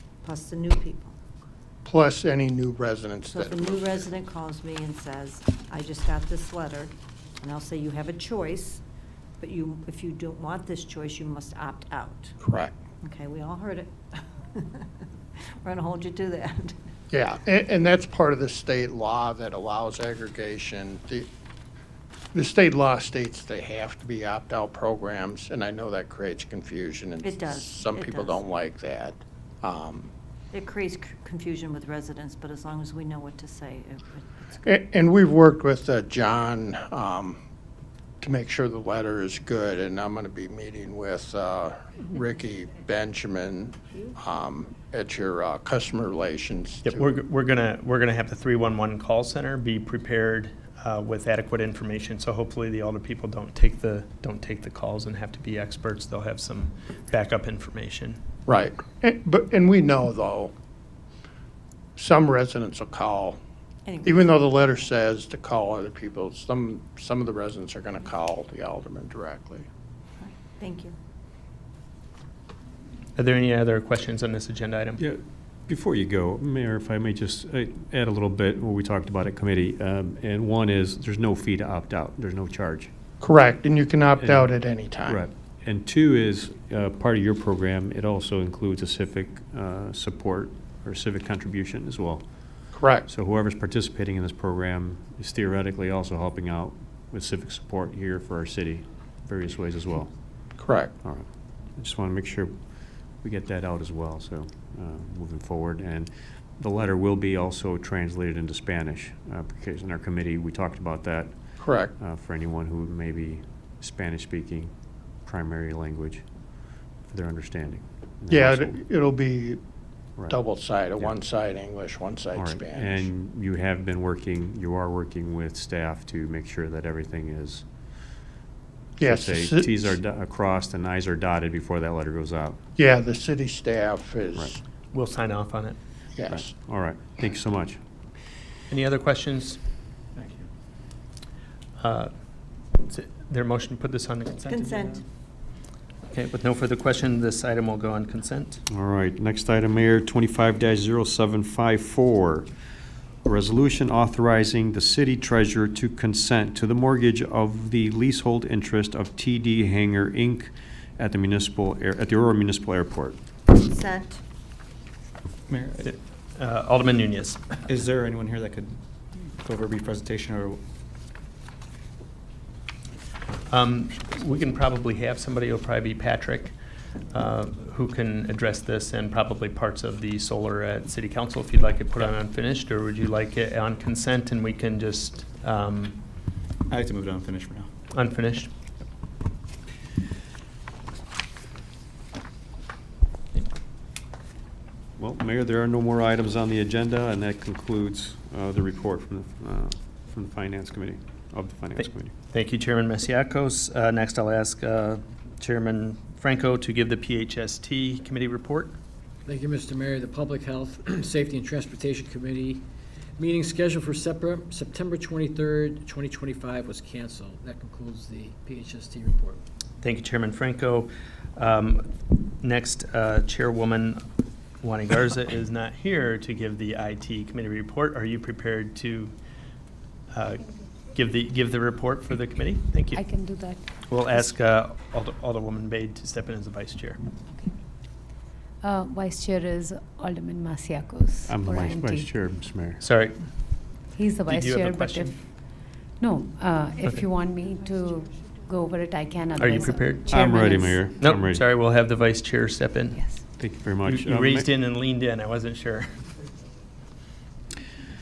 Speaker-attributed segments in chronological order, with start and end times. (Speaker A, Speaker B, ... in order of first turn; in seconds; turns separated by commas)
Speaker A: 0.2-1.1, Speaker B: 1.8-4.0, Speaker A: 3.3-8.8, Speaker A: 9.4-12.4, Speaker B: 12.4-12.7, Speaker A: 13.0-14.9, Speaker A: 15.5-16.8, Speaker B: 17.1-21.3, Speaker B: 22.3-30.1, Speaker A: 27.2-28.4, Speaker A: 30.5-34.6, Speaker B: 34.6-37.4, Speaker B: 38.2-47.0, Speaker C: 46.9-58.2, Speaker B: 58.5-60.5, Speaker B: 62.0-63.4, Speaker A: 63.9-64.3, Speaker B: 64.0-69.7, Speaker A: 70.2-70.9, Speaker C: 73.2-75.0, Speaker D: 75.0-82.9, Speaker B: 83.2-85.2, Speaker D: 84.2-84.5, Speaker D: 85.0-92.2, Speaker B: 92.7-93.0, Speaker D: 93.1-100.1, Speaker B: 100.6-100.9, Speaker D: 101.8-102.5, Speaker D: 103.2-114.7, Speaker B: 111.6-111.9, Speaker D: 115.2-116.2, Speaker D: 117.0-118.8, Speaker B: 118.3-119.6, Speaker B: 120.3-123.1, Speaker D: 122.3-127.6, Speaker B: 129.0-129.9, Speaker D: 129.0-132.6, Speaker B: 132.8-134.6, Speaker C: 134.9-135.8, Speaker B: 136.1-136.5, Speaker D: 136.3-137.8, Speaker C: 138.7-139.6, Speaker C: 141.8-142.1, Speaker C: 142.8-145.0, Speaker A: 144.5-145.0, Speaker C: 146.1-148.6, Speaker D: 148.7-152.5, Speaker D: 153.2-163.2, Speaker A: 163.5-164.2, Speaker E: 165.5-165.9, Speaker C: 165.8-167.4, Speaker E: 167.7-170.6, Speaker C: 173.5-176.5, Speaker C: 177.1-186.0, Speaker E: 186.7-187.7, Speaker C: 187.9-188.5, Speaker D: 195.0-202.1, Speaker C: 201.8-208.8, Speaker F: 209.2-219.4, Speaker C: 219.8-221.9, Speaker C: 222.4-224.0, Speaker C: 224.6-229.1, Speaker C: 230.1-233.0, Speaker G: 232.9-233.7, Speaker C: 233.8-237.0, Speaker G: 238.6-242.1, Speaker D: 241.2-242.8, Speaker C: 242.8-245.2, Speaker G: 243.9-245.2, Speaker G: 246.0-250.8, Speaker C: 249.3-250.3, Speaker D: 250.1-251.4, Speaker C: 250.8-253.1, Speaker G: 252.9-253.2, Speaker D: 253.3-254.5, Speaker C: 253.8-256.0